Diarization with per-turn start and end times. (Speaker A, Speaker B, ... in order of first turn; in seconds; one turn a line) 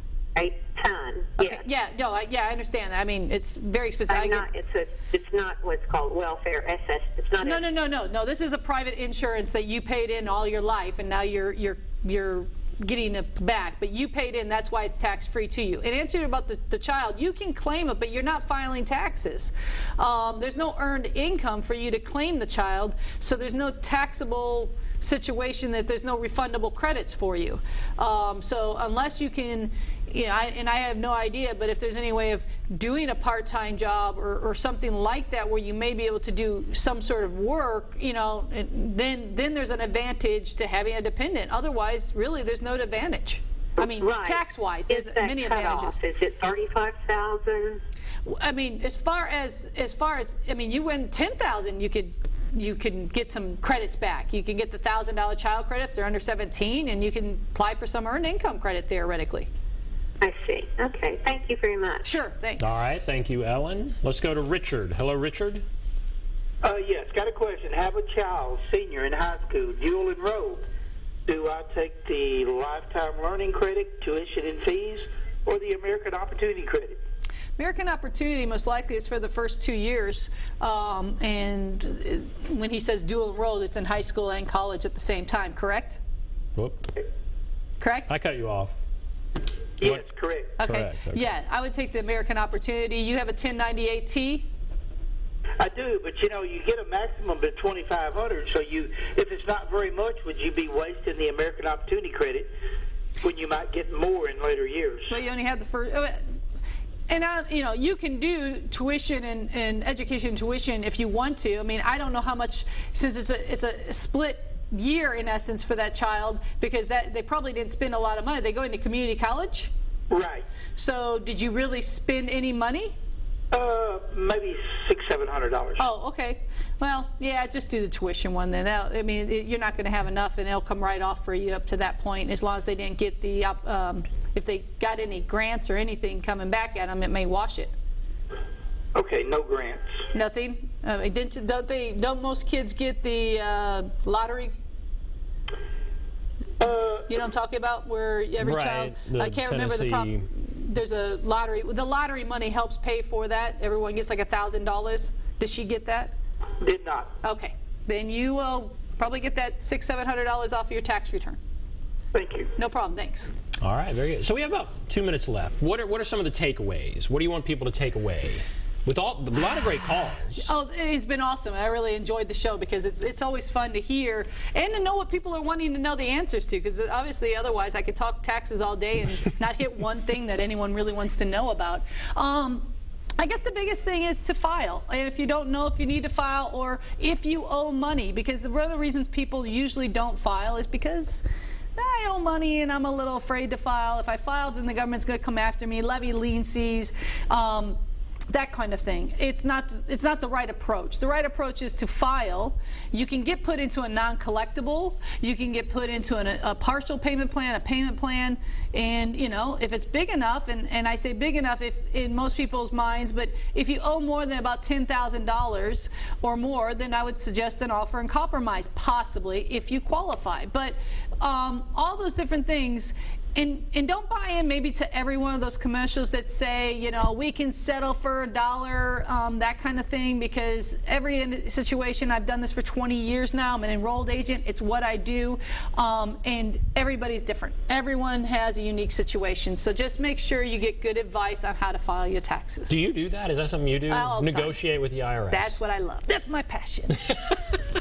Speaker A: 0.3-1.6
Speaker B: 1.4-4.5
Speaker A: 4.1-7.6
Speaker B: 7.4-46.0
Speaker A: 43.8-47.8
Speaker B: 48.2-59.5
Speaker A: 60.2-62.0
Speaker B: 62.0-62.8
Speaker C: 62.6-65.6
Speaker D: 66.6-70.7
Speaker D: 71.3-77.0
Speaker B: 77.6-86.0
Speaker C: 86.6-86.9
Speaker B: 87.8-88.1
Speaker C: 88.1-88.8
Speaker D: 89.8-90.6
Speaker B: 90.6-94.5
Speaker C: 90.6-91.3
Speaker D: 95.6-102.5
Speaker D: 103.2-105.2
Speaker B: 105.1-106.2
Speaker B: 107.1-119.7
Speaker D: 120.1-120.5
Speaker B: 120.8-122.9
Speaker D: 123.5-125.9
Speaker B: 125.8-137.7
Speaker D: 138.9-139.9
Speaker B: 140.1-144.6
Speaker D: 146.6-147.2
Speaker B: 147.1-156.1
Speaker C: 148.4-150.3
Speaker D: 156.6-157.2
Speaker B: 157.2-161.4
Speaker D: 162.1-162.5
Speaker B: 162.6-163.3
Speaker C: 163.6-170.5
Speaker B: 170.4-191.2
Speaker B: 191.8-197.8
Speaker B: 198.3-242.8
Speaker C: 242.7-245.6
Speaker B: 243.9-244.6
Speaker B: 245.3-247.0